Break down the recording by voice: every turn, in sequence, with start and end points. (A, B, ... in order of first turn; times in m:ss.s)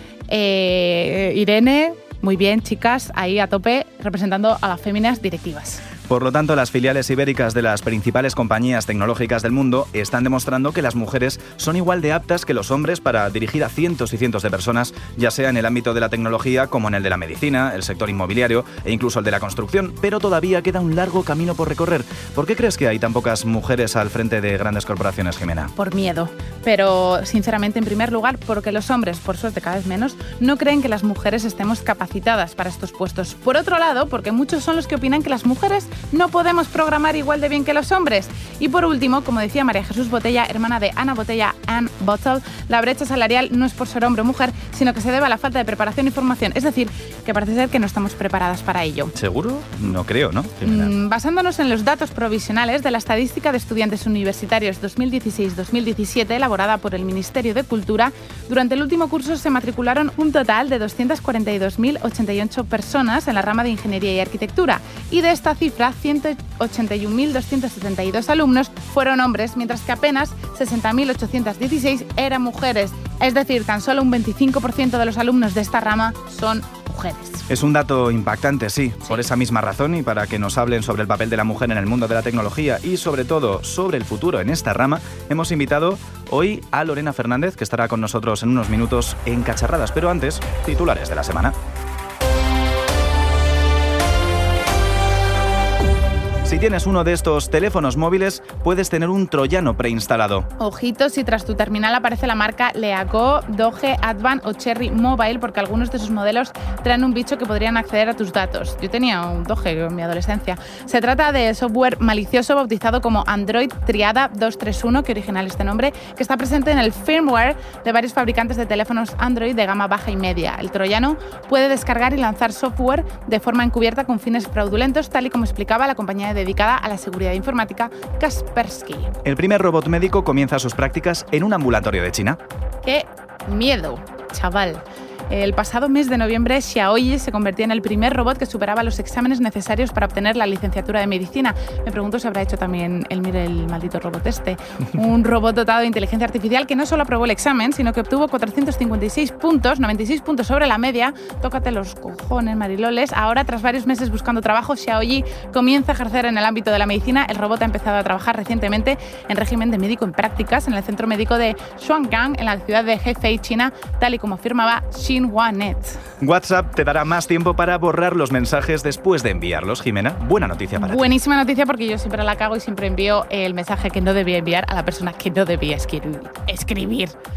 0:00.3-0:05.8 A
0:06.1-0:25.7 B
0:25.8-0:49.1 A
0:49.2-0:50.9 B
0:50.6-1:17.4 A
1:17.5-1:31.6 B
1:36.4-1:40.5 B
1:40.6-2:09.1 A
2:09.2-2:12.4 B
2:12.8-2:46.0 A
2:46.2-2:51.1 B
2:50.8-2:57.1 A